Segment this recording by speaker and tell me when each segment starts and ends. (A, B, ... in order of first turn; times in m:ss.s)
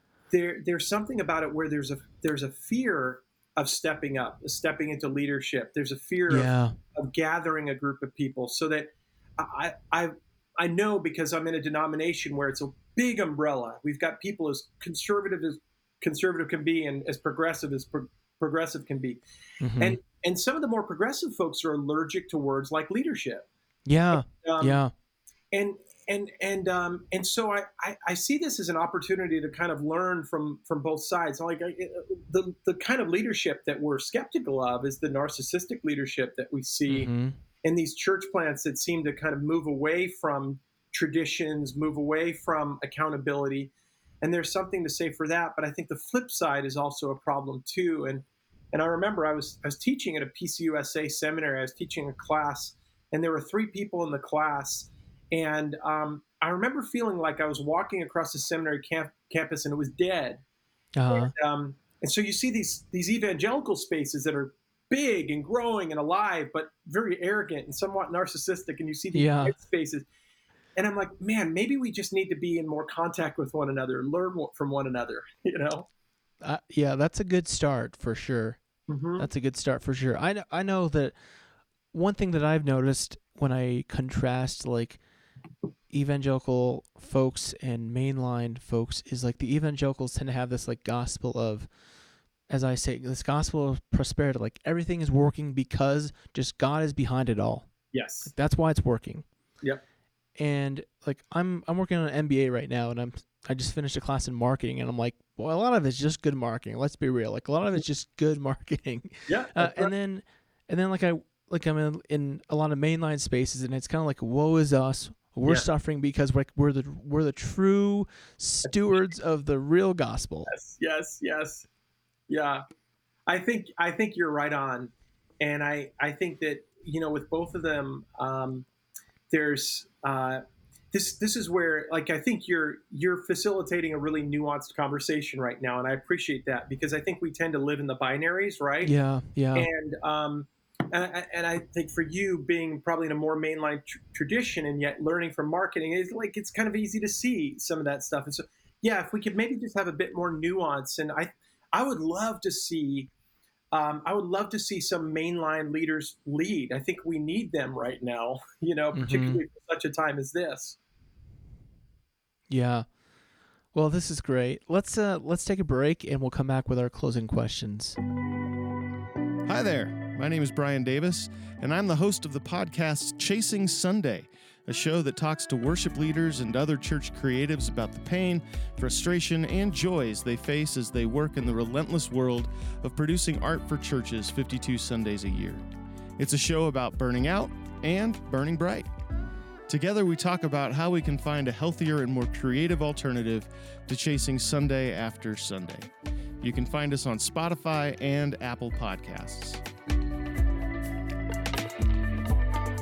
0:00.3-0:19.2 A
0:06.3-0:06.8 B
0:19.6-0:20.0 B
0:19.8-0:23.5 A
0:23.9-0:24.9 B
0:24.1-0:24.8 A
0:25.5-0:37.1 A
0:36.9-0:37.4 B
0:37.6-1:00.4 A
1:01.0-1:01.3 B
1:01.1-1:10.1 A
1:09.1-1:09.6 B
1:10.8-1:15.9 A
1:16.4-1:18.6 B
1:18.9-1:19.3 A
1:19.2-1:21.2 B
1:21.9-1:25.0 B
1:25.9-1:31.7 B
1:32.5-1:37.7 B
1:37.9-1:38.3 A
1:38.2-1:39.3 B
1:40.4-2:00.5 B
1:49.3-1:49.9 A
2:00.5-2:01.7 A
2:02.3-2:02.6 A
2:03.3-2:08.7 A
2:09.3-2:10.4 A
2:10.9-2:18.9 A
2:18.8-2:19.7 B
2:19.6-2:33.1 A
2:33.7-2:40.8 A
2:39.0-2:39.4 B
2:42.5-2:42.9 B
2:43.7-2:48.0 B
2:49.5-3:05.6 C
3:06.2-3:08.9 C
3:09.7-3:15.9 C
3:16.4-3:19.6 C